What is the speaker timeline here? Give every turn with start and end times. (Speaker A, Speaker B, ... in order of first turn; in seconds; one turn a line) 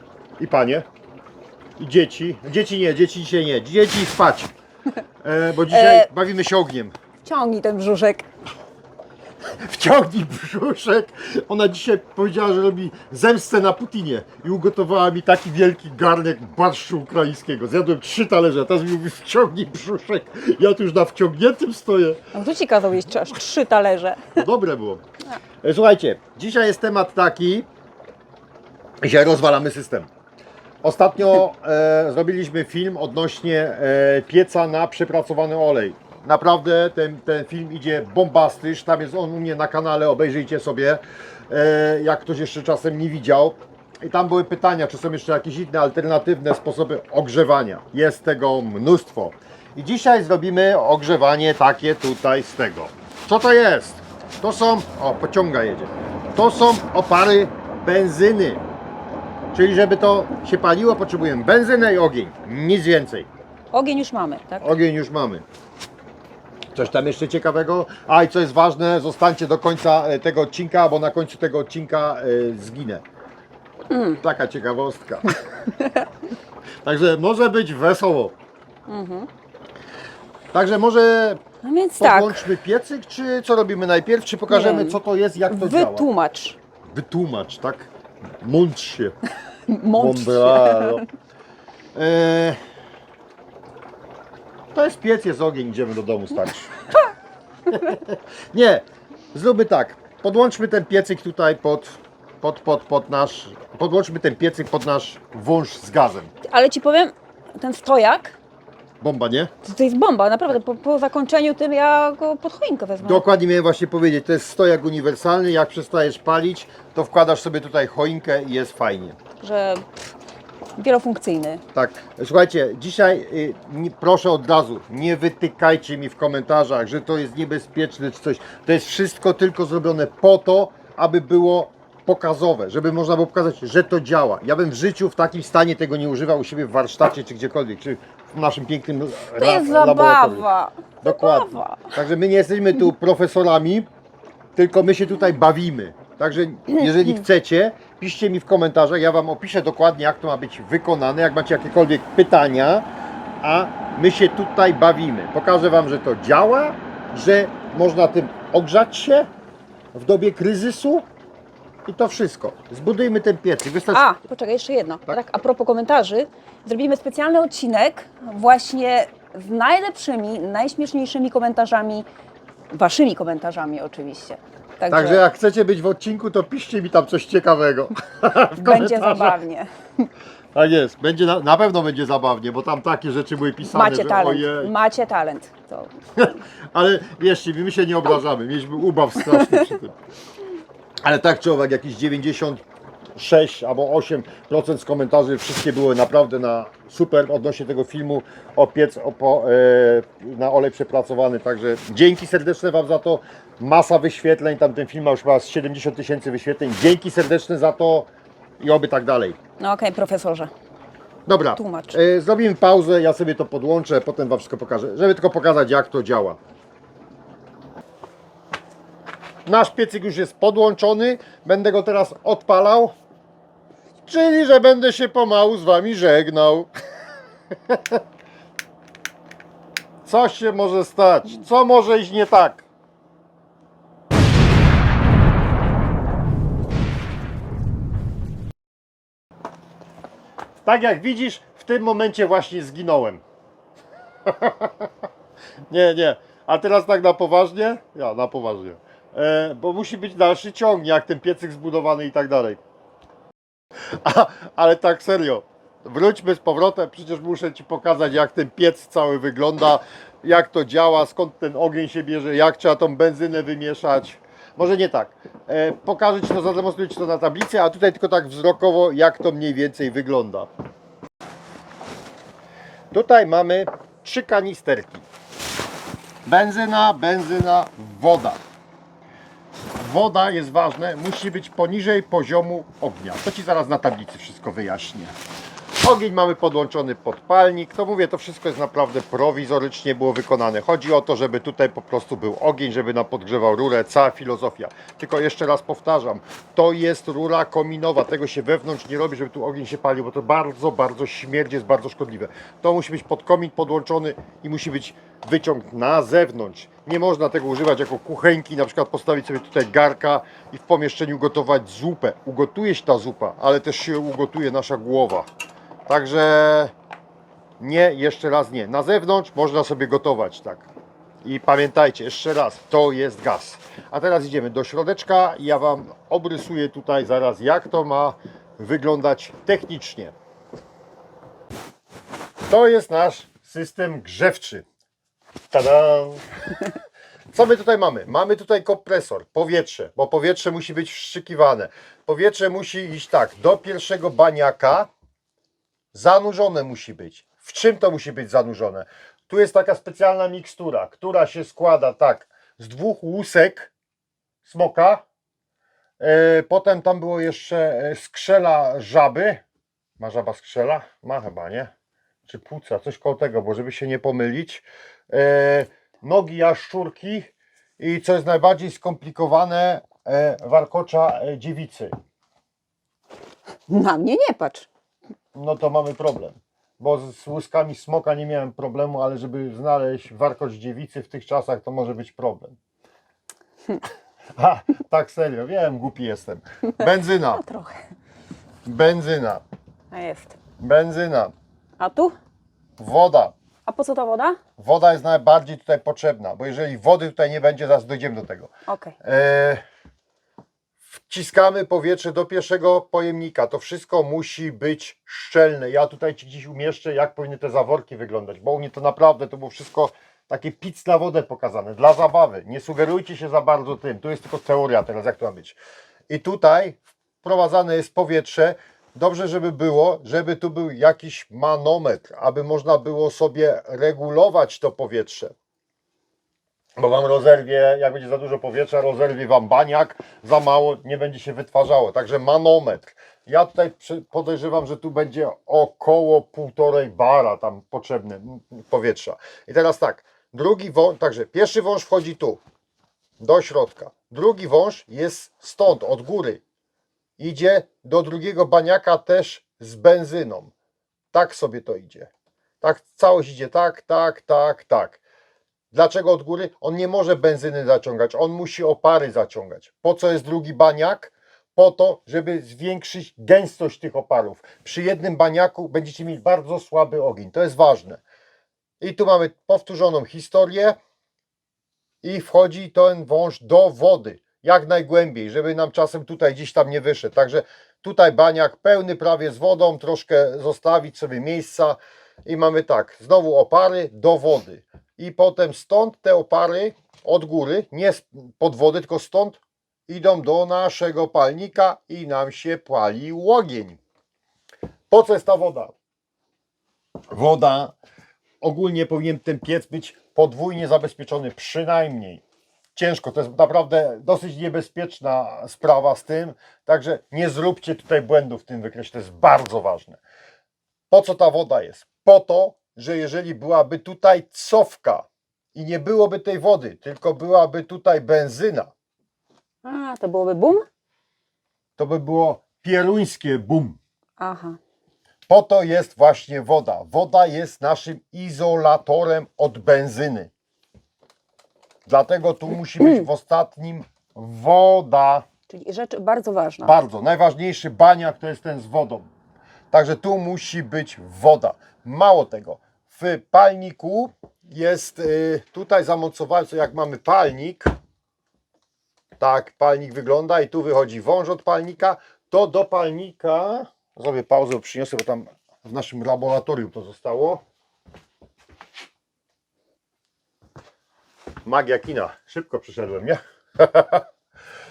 Speaker A: 0.4-0.8
Speaker A: 1.8-4.5
Speaker A: 5.2-6.9
Speaker B: 5.6-6.1
Speaker B: 7.2-8.3
Speaker A: 9.6-22.2
Speaker B: 22.3-24.3
Speaker A: 24.3-25.0
Speaker A: 25.6-27.7
Speaker A: 29.0-30.1
Speaker A: 30.8-58.6
Speaker A: 59.5-63.3
Speaker B: 63.7-64.7
Speaker A: 64.6-65.4
Speaker A: 66.7-73.0
Speaker B: 73.9-74.2
Speaker A: 74.2-75.4
Speaker B: 75.8-76.0
Speaker A: 76.8-78.3
Speaker B: 78.9-79.3
Speaker A: 80.5-81.4
Speaker B: 81.6-82.5
Speaker A: 82.0-86.1
Speaker B: 84.5-86.6
Speaker A: 86.8-87.9
Speaker A: 88.4-89.2
Speaker B: 89.7-91.0
Speaker A: 90.0-91.0
Speaker A: 91.9-92.6
Speaker A: 94.7-96.8
Speaker A: 97.7-106.3
Speaker B: 106.5-108.4
Speaker A: 109.0-109.5
Speaker B: 109.6-113.2
Speaker A: 113.0-119.2
Speaker B: 119.4-119.8
Speaker B: 120.8-121.6
Speaker A: 121.7-140.5
Speaker B: 139.4-141.9
Speaker A: 141.0-143.9
Speaker A: 144.6-152.8
Speaker A: 153.4-159.3
Speaker A: 159.9-161.1
Speaker A: 161.8-164.1
Speaker B: 163.9-172.1
Speaker B: 172.7-175.2
Speaker A: 174.9-179.4
Speaker B: 178.5-180.1
Speaker A: 180.5-184.7
Speaker B: 183.7-185.9
Speaker A: 186.2-189.9
Speaker B: 189.3-189.6
Speaker A: 191.0-192.6
Speaker A: 193.2-208.1
Speaker A: 208.6-209.4
Speaker B: 209.6-210.5
Speaker A: 211.2-216.4
Speaker B: 211.6-212.0
Speaker A: 219.4-222.9
Speaker A: 224.0-226.7
Speaker A: 227.7-228.0
Speaker A: 230.0-232.7
Speaker A: 240.6-243.2
Speaker A: 244.2-244.9
Speaker A: 245.7-252.6
Speaker A: 254.0-270.5
Speaker A: 272.9-275.1
Speaker A: 276.2-278.4
Speaker A: 279.8-285.1
Speaker A: 285.8-315.3
Speaker A: 315.9-316.7
Speaker A: 317.6-320.7
Speaker A: 321.2-330.1
Speaker A: 332.5-334.6
Speaker A: 335.5-336.6
Speaker A: 337.3-344.9
Speaker A: 345.9-353.7
Speaker A: 354.4-355.0
Speaker A: 356.0-359.4
Speaker A: 360.0-361.7
Speaker A: 362.2-371.9
Speaker B: 373.7-374.7
Speaker A: 375.3-382.6
Speaker A: 384.4-387.4
Speaker B: 387.3-387.8
Speaker A: 388.6-389.4
Speaker B: 389.9-390.4
Speaker A: 390.6-391.3
Speaker B: 391.8-392.1
Speaker A: 392.8-393.3
Speaker B: 393.6-394.4
Speaker A: 394.6-398.5
Speaker B: 398.7-398.9
Speaker A: 399.0-399.6
Speaker A: 401.1-415.6
Speaker A: 416.1-425.3
Speaker A: 426.8-442.4
Speaker A: 443.2-446.4
Speaker A: 447.2-450.5
Speaker A: 451.1-455.0
Speaker A: 455.7-468.0
Speaker A: 468.8-470.8
Speaker A: 472.0-493.8
Speaker A: 494.9-495.7
Speaker A: 497.1-497.8
Speaker A: 498.4-502.2
Speaker A: 502.7-510.0
Speaker A: 510.9-518.7
Speaker B: 519.6-520.6
Speaker A: 521.8-523.8
Speaker B: 524.2-524.6
Speaker A: 525.3-530.3
Speaker A: 531.9-535.2
Speaker B: 532.8-533.1
Speaker B: 535.5-536.8
Speaker A: 536.6-539.1
Speaker A: 539.7-547.7
Speaker A: 549.2-557.4
Speaker A: 561.4-564.0